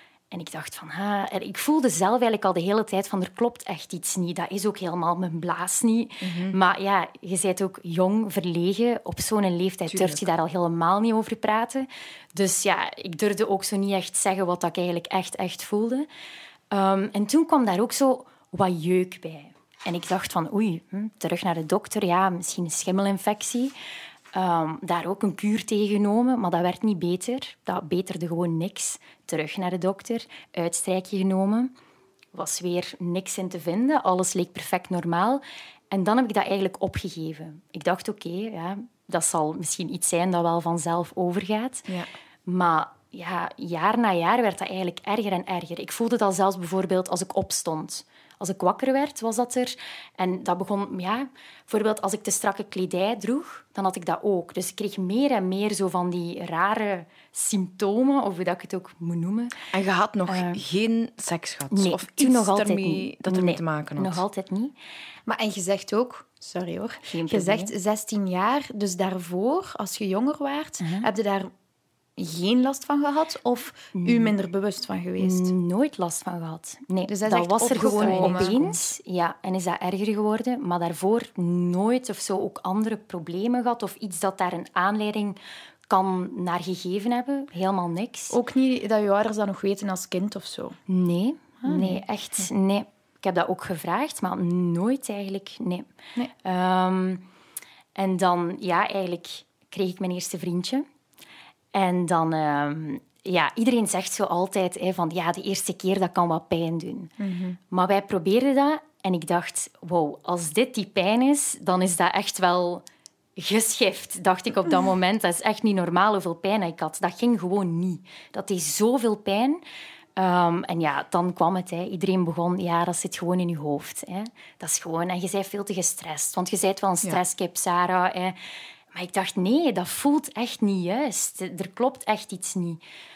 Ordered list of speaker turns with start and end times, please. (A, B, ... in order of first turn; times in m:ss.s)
0:00.3-0:16.1 A
0:06.2-0:06.6 B
0:09.9-0:10.3 B
0:16.7-0:23.7 A
0:24.3-0:31.7 A
0:32.3-0:41.9 A
0:42.4-0:59.6 A
0:59.7-1:04.2 B
1:00.3-1:00.6 A
1:01.7-1:04.7 A
1:05.2-1:11.5 C
1:07.1-1:07.7 A
1:10.8-1:11.1 A
1:12.2-1:15.5 C
1:13.9-1:14.3 A
1:15.2-1:25.4 A
1:17.1-1:18.8 C
1:17.7-1:18.6 B
1:25.9-1:28.4 A
1:28.3-1:30.8 C
1:30.9-1:37.2 A
1:31.6-1:32.0 C
1:37.9-1:40.8 A
1:41.7-1:47.1 A
1:47.2-1:47.6 C
1:47.7-1:52.8 A
1:53.4-1:59.6 A
2:00.2-2:08.4 A
2:08.9-2:12.8 A